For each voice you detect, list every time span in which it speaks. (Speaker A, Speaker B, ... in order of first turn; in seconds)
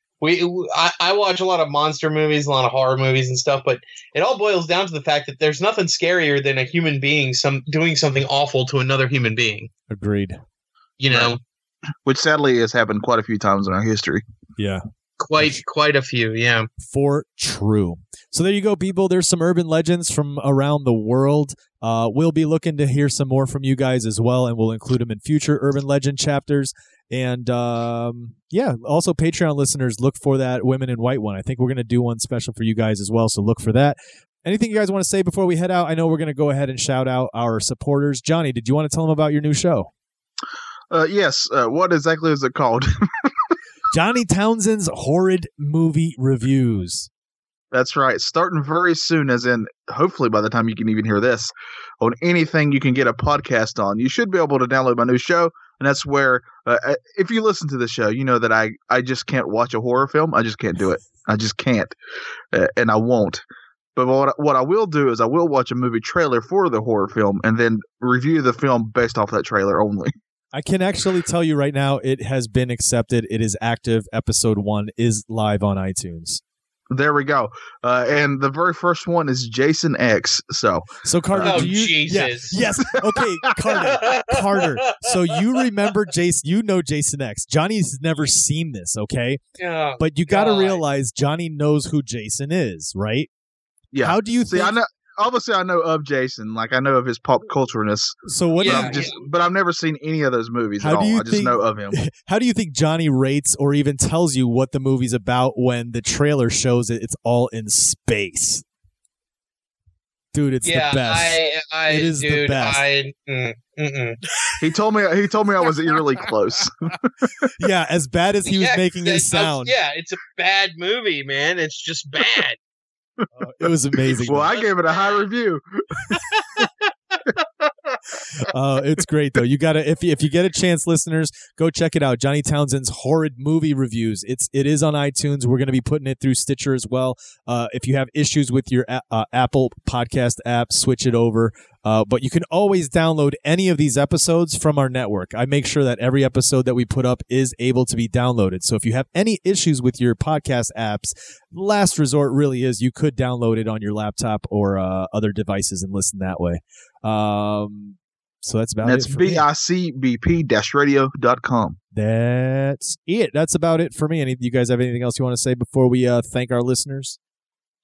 Speaker A: 0.2-9.7, 11.0-11.4, 15.2-16.7, 81.4-82.6, 83.8-85.1, 89.6-90.8, 98.6-99.2, 110.6-114.2, 118.5-122.6, 124.3-125.3, 126.1-127.4
Speaker B: 9.9-10.4, 16.8-39.9, 43.9-47.1, 70.5-76.4, 81.0-89.4, 90.0-93.3, 94.0-94.8, 98.2-99.1, 100.8-108.7, 110.3-111.4, 111.9-112.8, 117.6-119.7, 123.3-124.5, 128.3-159.4, 161.9-167.2
Speaker C: 12.1-14.2, 40.9-43.5, 47.7-62.0, 62.5-63.4, 64.0-70.1, 76.9-81.7, 83.1-83.8, 93.9-102.0, 114.6-117.5, 124.2-126.2, 158.8-161.8